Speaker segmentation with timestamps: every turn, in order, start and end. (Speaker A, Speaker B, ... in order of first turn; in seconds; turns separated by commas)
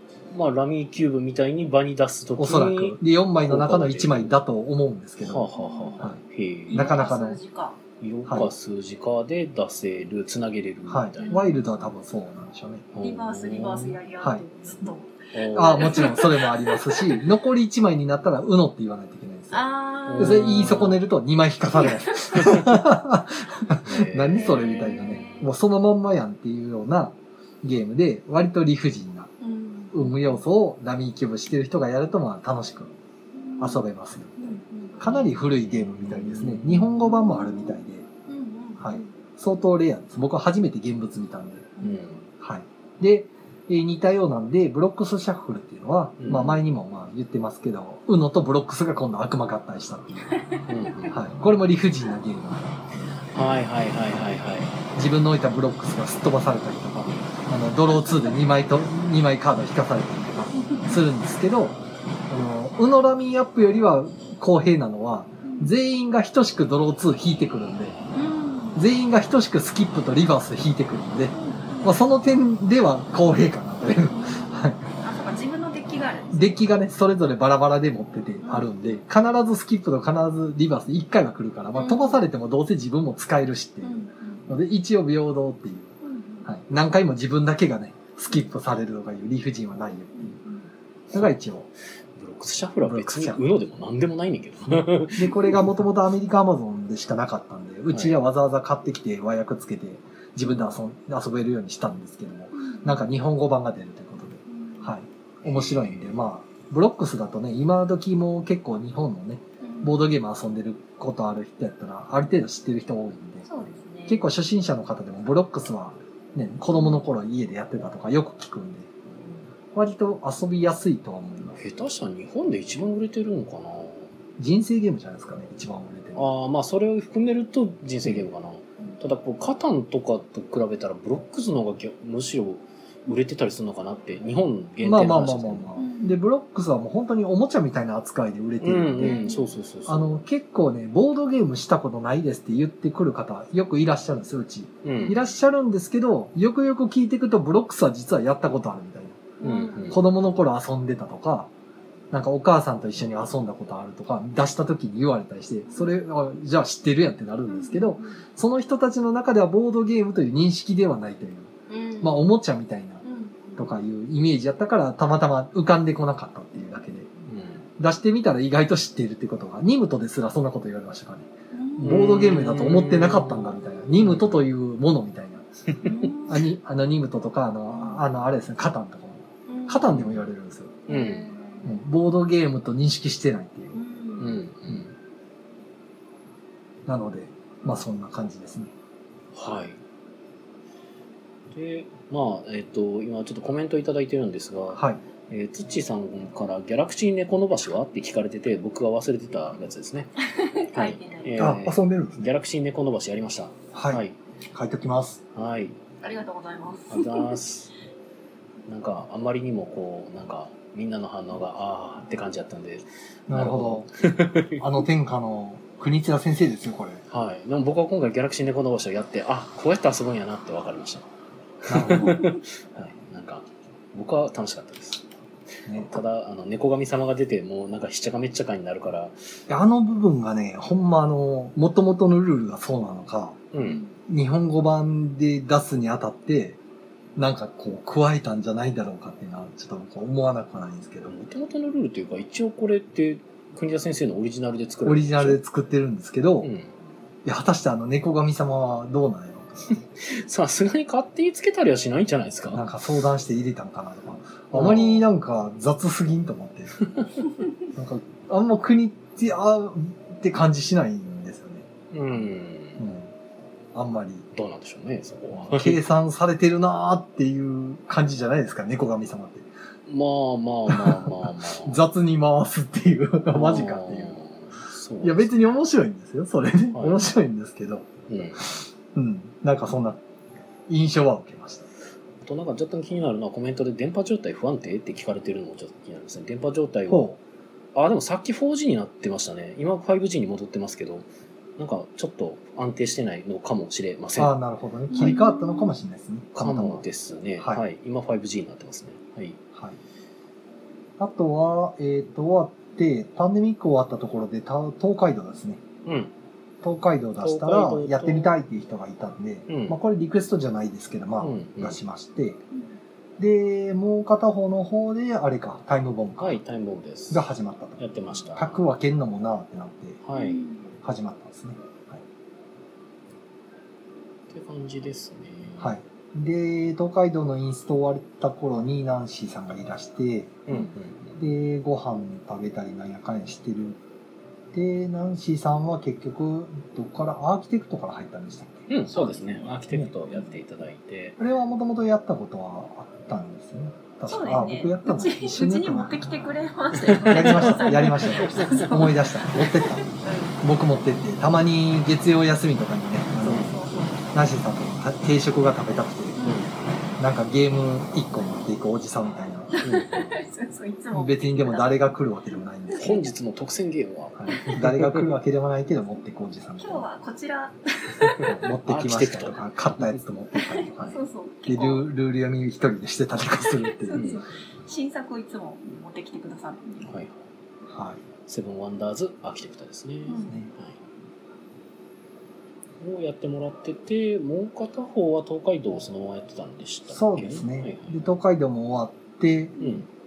Speaker A: 0.3-4.4, Speaker B: 2.4-5.5, Speaker A: 5.2-7.0, Speaker C: 5.6-6.1, Speaker C: 6.7-7.8, Speaker B: 6.7-7.4, Speaker A: 8.0-11.5, Speaker B: 10.9-12.9, Speaker C: 11.2-11.6, Speaker A: 12.9-14.0, Speaker C: 13.0-17.2, Speaker A: 15.3-16.1, Speaker B: 15.5-19.6, Speaker C: 19.5-20.7, Speaker A: 20.1-21.0, Speaker B: 20.2-29.3, Speaker C: 21.9-22.3, Speaker A: 23.8-24.7, Speaker C: 24.3-25.5, Speaker C: 29.4-30.4, Speaker B: 29.9-32.9, Speaker C: 33.4-33.9, Speaker B: 33.6-38.1, Speaker C: 34.4-35.0, Speaker A: 35.1-36.8, Speaker C: 36.4-39.1, Speaker B: 38.8-41.7, Speaker C: 41.8-42.0, Speaker A: 41.8-42.3, Speaker B: 42.4-50.4, Speaker A: 46.2-46.5, Speaker C: 46.3-46.6, Speaker C: 50.3-51.1, Speaker A: 50.7-51.2, Speaker B: 51.1-52.9, Speaker A: 53.3-54.8, Speaker B: 55.0-68.0, Speaker C: 58.1-58.4, Speaker C: 60.5-61.0, Speaker C: 65.4-65.7, Speaker C: 68.1-68.8, Speaker B: 68.8-74.8, Speaker C: 71.3-72.0, Speaker C: 74.1-76.7, Speaker B: 76.3-85.9, Speaker C: 78.4-78.8, Speaker C: 81.8-82.2, Speaker C: 83.8-84.5, Speaker C: 86.0-86.5, Speaker B: 86.5-90.3, Speaker C: 90.2-90.7, Speaker B: 91.1-91.7, Speaker A: 92.2-95.6, Speaker B: 92.8-93.5, Speaker B: 94.7-113.5, Speaker A: 97.9-98.2, Speaker C: 102.5-103.0, Speaker C: 104.5-104.9, Speaker A: 105.5-106.3, Speaker C: 109.6-110.0, Speaker C: 113.5-114.2, Speaker B: 114.1-118.9, Speaker C: 116.7-117.0, Speaker B: 119.7-121.6, Speaker A: 121.5-124.1, Speaker B: 124.4-126.3, Speaker A: 126.2-135.7, Speaker B: 134.8-139.2, Speaker C: 135.8-136.2, Speaker A: 138.6-140.2, Speaker C: 139.0-139.6, Speaker B: 139.9-149.3, Speaker A: 144.8-145.2, Speaker C: 149.4-150.0, Speaker A: 149.4-150.0, Speaker B: 149.9-151.5, Speaker B: 152.1-163.0, Speaker C: 157.5-158.2, Speaker C: 161.7-162.3, Speaker C: 163.0-163.8, Speaker B: 163.6-167.1, Speaker A: 167.3-167.6, Speaker B: 167.8-175.5, Speaker C: 171.5-172.1, Speaker A: 171.8-174.4, Speaker A: 175.7-176.0, Speaker C: 175.8-176.5, Speaker B: 176.3-180.8, Speaker C: 177.7-178.0, Speaker C: 179.5-179.9, Speaker A: 179.8-180.3, Speaker C: 180.9-181.8, Speaker A: 180.9-181.3, Speaker B: 181.6-183.8, Speaker C: 183.8-184.5, Speaker A: 184.2-184.9, Speaker B: 186.9-188.7, Speaker A: 189.3-189.8, Speaker A: 191.5-200.1, Speaker B: 194.8-195.0, Speaker C: 200.2-201.5, Speaker A: 200.7-204.2, Speaker B: 201.4-202.3, Speaker B: 203.7-205.2, Speaker A: 205.3-205.8, Speaker C: 206.0-207.4, Speaker A: 206.9-207.7, Speaker A: 208.7-214.6, Speaker B: 213.3-213.9, Speaker B: 214.6-217.0, Speaker A: 217.1-221.1, Speaker A: 221.6-225.1, Speaker B: 221.7-222.3, Speaker A: 225.7-229.2, Speaker B: 229.5-233.4, Speaker A: 233.5-233.8, Speaker B: 234.1-236.6, Speaker B: 237.2-241.2, Speaker A: 241.1-245.4, Speaker B: 244.8-246.5, Speaker A: 246.4-246.7, Speaker B: 247.2-249.8, Speaker A: 249.7-252.6, Speaker B: 252.5-256.9, Speaker A: 254.5-255.1, Speaker A: 256.8-257.1, Speaker B: 257.7-261.7, Speaker A: 261.9-262.9, Speaker B: 262.8-263.1, Speaker B: 263.7-264.3, Speaker A: 264.3-265.8, Speaker B: 265.3-269.5, Speaker A: 269.9-271.8, Speaker B: 270.7-274.2, Speaker A: 273.3-275.3, Speaker B: 275.0-280.0, Speaker A: 276.7-277.1, Speaker A: 278.1-278.4, Speaker B: 280.7-281.7, Speaker A: 282.2-287.1, Speaker B: 286.9-287.2, Speaker A: 287.8-291.1, Speaker A: 291.6-294.4, Speaker B: 294.2-296.9, Speaker C: 294.9-295.7, Speaker A: 296.4-299.4, Speaker B: 301.0-305.6, Speaker A: 305.9-306.1, Speaker B: 306.6-312.4, Speaker A: 307.2-308.4, Speaker A: 309.5-309.8, Speaker A: 311.2-311.8, Speaker B: 313.2-316.4, Speaker A: 316.2-317.2, Speaker B: 317.1-317.8, Speaker A: 317.8-318.6, Speaker B: 318.4-320.0, Speaker A: 320.0-320.5, Speaker C: 320.1-320.7, Speaker B: 320.8-322.0, Speaker A: 324.3-325.8, Speaker B: 325.6-330.4, Speaker A: 330.5-331.2, Speaker B: 331.2-333.8, Speaker B: 334.5-339.9, Speaker A: 338.7-341.2, Speaker B: 341.2-346.1, Speaker C: 344.1-350.4, Speaker A: 346.8-348.7, Speaker B: 347.1-349.9, Speaker B: 350.4-353.5, Speaker A: 353.2-353.9, Speaker C: 353.2-354.1, Speaker B: 354.1-356.2, Speaker C: 356.2-356.5, Speaker A: 356.2-356.8, Speaker B: 357.0-359.6, Speaker C: 359.5-361.9, Speaker A: 359.6-360.2, Speaker B: 360.9-363.0, Speaker C: 362.7-363.1, Speaker A: 362.8-365.1, Speaker B: 364.2-366.9, Speaker C: 366.6-368.3, Speaker A: 368.0-370.0, Speaker B: 368.2-374.1, Speaker C: 370.4-371.9, Speaker C: 373.6-376.9, Speaker A: 373.9-374.2, Speaker A: 376.8-377.2, Speaker B: 377.7-378.0, Speaker A: 378.3-380.8, Speaker C: 380.1-380.4, Speaker A: 382.8-388.1, Speaker B: 386.9-389.6, Speaker C: 389.6-389.8, Speaker A: 389.6-389.9